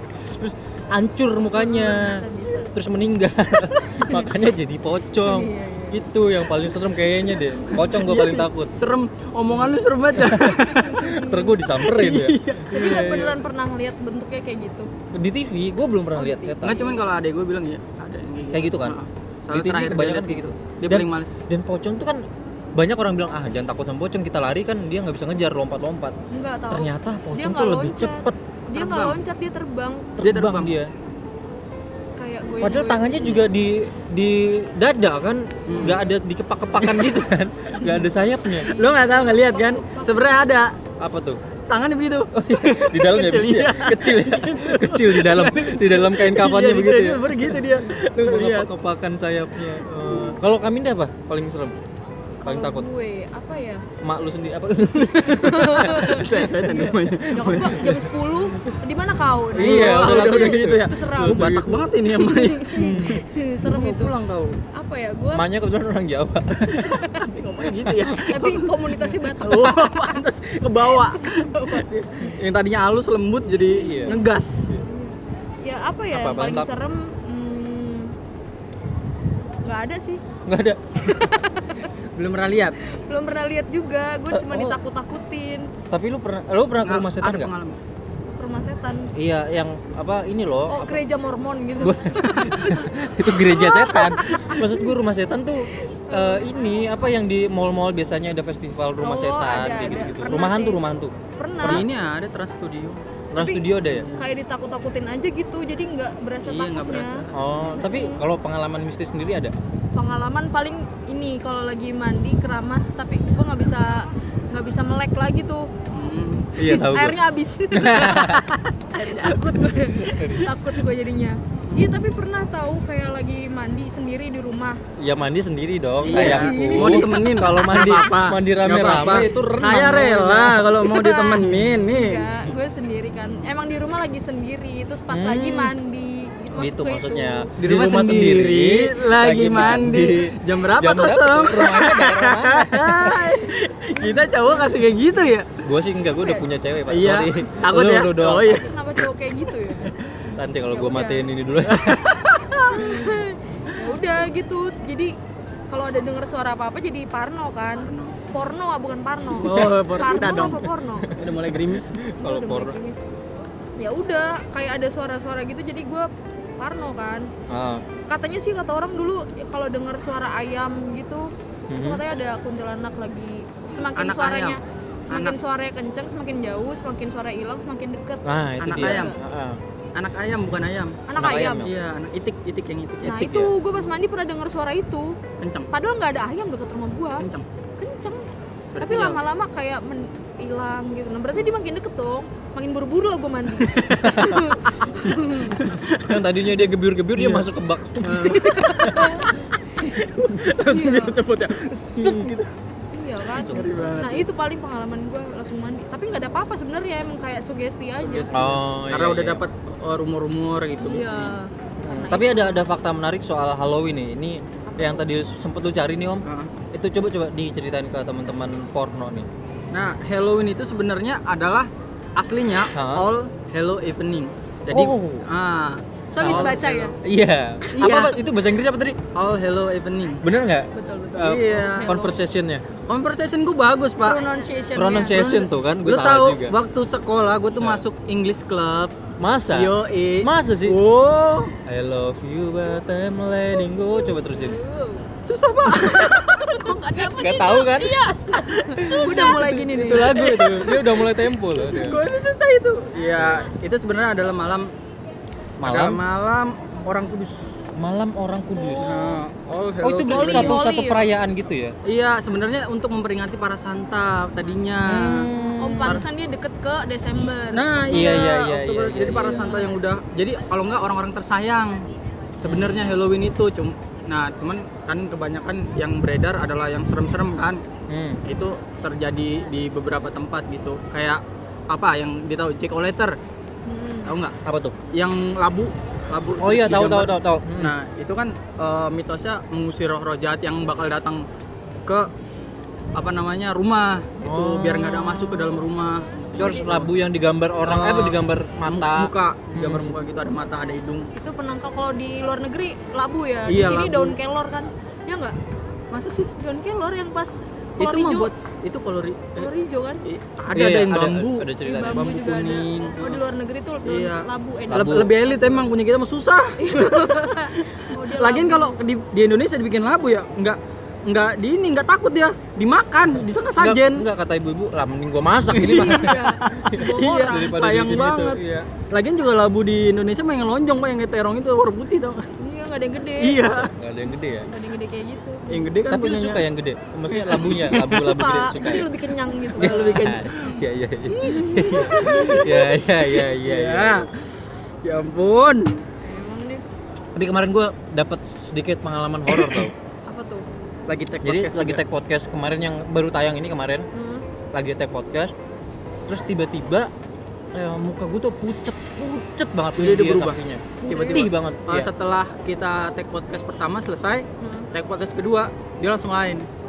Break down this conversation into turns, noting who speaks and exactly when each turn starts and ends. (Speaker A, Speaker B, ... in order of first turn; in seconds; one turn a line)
Speaker A: 0.2-8.7
Speaker B: 1.5-2.7
Speaker B: 3.9-4.3
Speaker B: 5.2-6.0
Speaker C: 7.8-11.2
Speaker A: 10.1-13.1
Speaker B: 10.8-11.6
Speaker C: 11.8-13.4
Speaker B: 12.7-14.9
Speaker A: 15.1-16.8
Speaker B: 16.1-17.0
Speaker C: 16.6-21.4
Speaker A: 18.5-19.0
Speaker A: 19.5-26.1
Speaker B: 26.3-30.2
Speaker A: 26.7-28.4
Speaker C: 28.7-29.2
Speaker A: 30.2-30.9
Speaker C: 30.2-30.7
Speaker B: 32.2-33.4
Speaker A: 32.6-38.7
Speaker C: 35.7-36.0
Speaker B: 37.8-40.5
Speaker C: 38.7-40.8
Speaker A: 41.0-41.4
Speaker C: 41.7-48.7
Speaker A: 42.3-51.8
Speaker C: 50.0-50.4
Speaker B: 52.4-53.8
Speaker A: 52.4-52.9
Speaker A: 54.0-56.2
Speaker C: 55.0-58.0
Speaker B: 55.3-64.1
Speaker A: 59.5-61.8
Speaker C: 59.6-64.6
Speaker A: 62.7-63.2
Speaker B: 64.7-65.4
Speaker A: 65.3-67.0
Speaker B: 66.7-67.3
Speaker C: 67.1-74.8
Speaker B: 68.1-70.1
Speaker B: 70.9-71.8
Speaker A: 73.7-74.2
Speaker B: 74.8-78.1
Speaker A: 76.1-76.7
Speaker B: 79.6-80.2
Speaker A: 80.4-81.3
Speaker B: 81.0-81.9
Speaker C: 82.1-82.8
Speaker B: 82.9-85.7
Speaker A: 84.3-84.8
Speaker A: 85.9-87.5
Speaker C: 86.8-87.8
Speaker B: 88.3-89.1
Speaker A: 89.2-91.0
Speaker B: 90.7-94.7
Speaker A: 91.8-101.8
Speaker B: 95.6-96.6
Speaker B: 99.0-100.8
Speaker B: 101.3-101.8
Speaker C: 101.6-103.0
Speaker A: 103.3-104.1
Speaker B: 103.3-107.2
Speaker C: 103.9-104.3
Speaker C: 106.4-107.4
Speaker A: 107.3-109.5
Speaker B: 107.8-108.2
Speaker B: 109.9-115.7
Speaker C: 115.9-116.8
Speaker A: 116.6-117.2
Speaker B: 116.6-118.4
Speaker A: 117.7-118.5
Speaker C: 118.1-120.5
Speaker B: 118.9-124.8
Speaker A: 120.1-120.4
Speaker A: 125.0-130.6
Speaker C: 126.0-132.2
Speaker B: 126.0-128.1
Speaker B: 130.7-137.5
Speaker A: 131.4-131.7
Speaker A: 135.1-135.7
Speaker A: 136.5-143.4
Speaker C: 137.6-145.5
Speaker B: 143.9-144.8
Speaker A: 145.6-148.7
Speaker C: 146.9-148.7
Speaker B: 148.5-149.9
Speaker A: 150.3-152.1
Speaker B: 150.7-151.2
Speaker C: 151.6-153.1
Speaker B: 152.7-155.1
Speaker B: 155.7-161.1
Speaker C: 157.8-158.2
Speaker C: 159.3-162.0
Speaker A: 161.0-162.8
Speaker B: 162.2-163.1
Speaker B: 163.8-167.3
Speaker A: 167.5-167.8
Speaker B: 168.1-179.2
Speaker A: 171.7-172.0
Speaker C: 173.7-174.6
Speaker C: 175.1-175.3
Speaker A: 178.2-179.6
Speaker C: 178.6-179.1
Speaker C: 179.9-181.0
Speaker B: 181.1-181.7
Speaker A: 181.2-181.7
Speaker C: 181.6-183.4
Speaker B: 183.0-185.2
Speaker A: 183.1-183.5
Speaker C: 185.4-185.7
Speaker B: 185.7-187.2
Speaker C: 187.2-187.4
Speaker B: 187.8-188.3
Speaker C: 188.7-189.2
Speaker B: 188.8-195.6
Speaker C: 193.7-194.1
Speaker A: 194.0-194.4
Speaker C: 195.6-196.6
Speaker A: 195.7-199.2
Speaker C: 197.1-197.5
Speaker C: 198.0-199.0
Speaker B: 198.3-199.9
Speaker C: 199.8-202.5
Speaker B: 200.6-201.2
Speaker A: 202.0-202.2
Speaker B: 202.9-208.6
Speaker A: 203.3-204.1
Speaker C: 203.5-204.3
Speaker C: 208.0-211.3
Speaker A: 208.3-209.4
Speaker B: 210.8-212.6
Speaker A: 211.8-219.3
Speaker B: 214.7-215.1
Speaker C: 216.2-216.5
Speaker C: 219.7-226.9
Speaker A: 222.7-223.1
Speaker A: 224.7-225.3
Speaker B: 226.1-226.9
Speaker A: 226.1-229.0
Speaker C: 227.7-228.2
Speaker C: 229.1-230.2
Speaker A: 230.2-232.7
Speaker B: 230.7-232.2
Speaker C: 231.2-232.0
Speaker C: 232.9-234.2
Speaker B: 234.0-235.2
Speaker A: 234.7-236.6
Speaker C: 235.1-238.9
Speaker A: 237.6-237.8
Speaker A: 239.2-240.8
Speaker C: 239.5-241.5
Speaker A: 241.7-244.6
Speaker B: 244.2-245.1
Speaker C: 245.2-254.7
Speaker B: 245.9-246.8
Speaker A: 247.0-248.0
Speaker B: 248.8-250.4
Speaker A: 248.9-252.0
Speaker A: 253.2-253.4
Speaker A: 255.6-256.0
Speaker C: 255.6-257.6
Speaker A: 257.8-259.0
Speaker B: 258.6-259.2
Speaker C: 258.8-260.6
Speaker A: 259.8-261.8
Speaker B: 260.1-261.1
Speaker C: 261.8-265.3
Speaker A: 264.9-266.0
Speaker B: 265.4-268.3
Speaker C: 267.5-271.9
Speaker A: 267.9-269.6
Speaker B: 269.1-269.8
Speaker C: 272.4-277.6
Speaker A: 272.4-273.0
Speaker A: 277.9-278.2
Speaker C: 278.2-283.2
Speaker B: 283.6-284.1
Speaker C: 284.1-284.4
Speaker A: 284.4-284.8
Speaker C: 284.9-291.2
Speaker A: 286.4-287.8
Speaker C: 291.8-292.1
Speaker C: 292.9-296.9
Speaker A: 294.2-295.6
Speaker B: 296.4-296.7
Speaker A: 296.4-299.9
Speaker C: 297.6-301.1
Speaker B: 301.1-305.4
Speaker C: 303.4-304.1
Speaker C: 305.9-306.3
Speaker B: 306.4-308.3
Speaker C: 307.8-309.5
Speaker B: 309.4-310.0
Speaker C: 310.0-313.2
Speaker A: 310.5-312.1
Speaker B: 311.6-315.7
Speaker C: 313.8-324.1
Speaker A: 314.7-315.1
Speaker B: 316.6-318.8
Speaker A: 323.6-328.7
Speaker B: 325.5-327.6
Speaker C: 325.5-328.4
Speaker C: 328.9-332.3
Speaker B: 332.4-333.5
Speaker C: 333.2-333.7
Speaker A: 333.6-334.5
Speaker B: 334.3-335.6
Speaker C: 335.5-336.4
Speaker A: 335.9-338.9
Speaker C: 337.1-337.8
Speaker B: 337.6-340.1
Speaker C: 339.6-340.6
Speaker A: 339.6-344.1
Speaker B: 341.1-342.4
Speaker C: 341.7-344.3
Speaker C: 344.8-345.8
Speaker B: 346.0-346.6
Speaker A: 347.1-349.7
Speaker C: 349.3-349.7
Speaker B: 350.1-350.4
Speaker C: 350.9-351.8
Speaker A: 351.2-353.9
Speaker B: 353.9-354.2
Speaker A: 354.5-355.3
Speaker A: 356.1-356.9
Speaker A: 357.5-361.9
Speaker C: 359.8-366.4
Speaker B: 360.8-361.3
Speaker B: 364.4-364.7